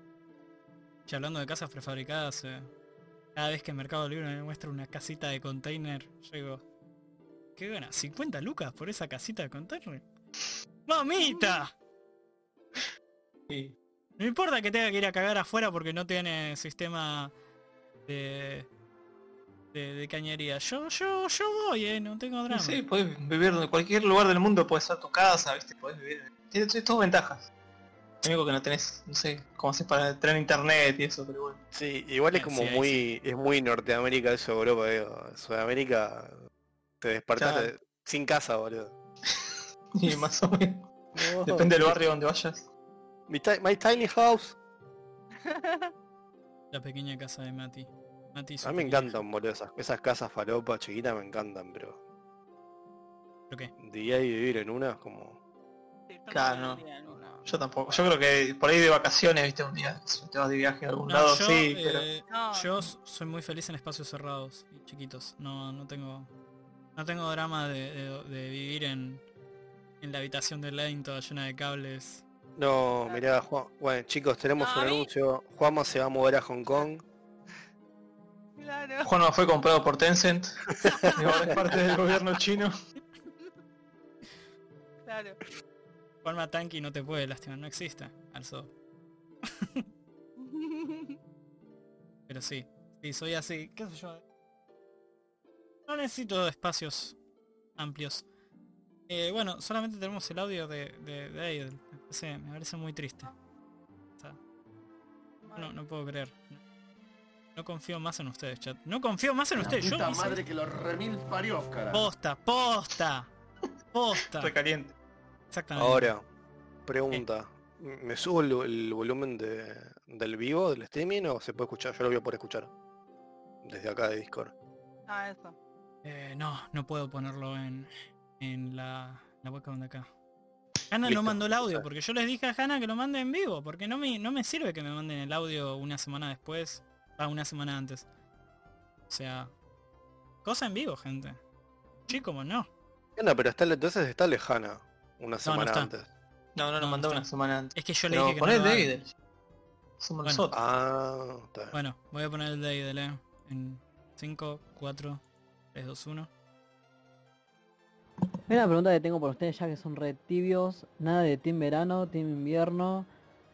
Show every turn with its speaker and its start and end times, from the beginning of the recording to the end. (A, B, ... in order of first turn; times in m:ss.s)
0:01.1-0:02.7 A
0:03.3-0:06.6 A
0:07.6-0:10.0 A
0:10.9-0:11.7 A
0:11.2-0:11.6 B
0:13.5-0:13.7 C
0:14.2-0:17.3 A
0:18.1-0:18.7 A
0:19.7-0:22.8 A
0:22.5-0:27.5 C
0:28.2-0:31.6 C
0:31.7-0:36.4 D
0:32.3-0:33.0 A
0:37.0-0:38.9 D
0:37.4-0:37.7 C
0:39.3-0:42.6 C
0:41.1-0:42.0 D
0:43.3-0:44.6 D
0:43.9-0:44.4 B
0:45.3-0:45.9 B
0:46.7-0:49.2 A
0:48.6-0:52.0 D
0:53.8-0:55.4 D
0:56.1-0:57.4 B
0:56.3-0:56.8 C
0:57.4-1:02.1 C
1:01.1-1:06.3 A
1:02.3-1:02.7 B
1:07.0-1:09.2 A
1:10.0-1:12.2 A
1:12.6-1:17.0 D
1:14.6-1:15.1 B
1:18.6-1:19.1 B
1:19.0-1:22.7 C
1:21.1-1:21.5 B
1:25.0-1:25.4 B
1:26.2-1:28.7 A
1:30.4-1:31.2 B
1:32.3-1:34.2 A
1:35.9-1:37.2 A
1:37.8-1:38.2 A
1:39.1-1:43.3 A
1:45.4-1:45.7 B
1:45.6-1:46.6 A
1:47.6-1:50.4 A
1:49.6-1:52.1 E
1:51.9-1:53.3 A
1:53.9-1:54.5 A
1:54.3-1:54.9 C
1:55.5-1:56.1 A
1:55.7-1:56.2 D
1:56.8-2:02.7 D
2:03.6-2:04.5 D
2:05.1-2:05.6 B
2:06.0-2:10.1 A
2:10.9-2:18.0 A
2:11.0-2:11.8 D
2:19.1-2:19.5 A
2:20.4-2:21.4 A
2:22.1-2:22.7 A
2:23.2-2:26.1 D
2:25.4-2:25.9 A
2:26.6-2:29.1 C
2:26.8-2:28.9 A
2:30.0-2:30.6 C
2:30.5-2:31.8 D
2:31.7-2:35.2 A
2:35.7-2:36.3 A
2:38.5-2:43.1 F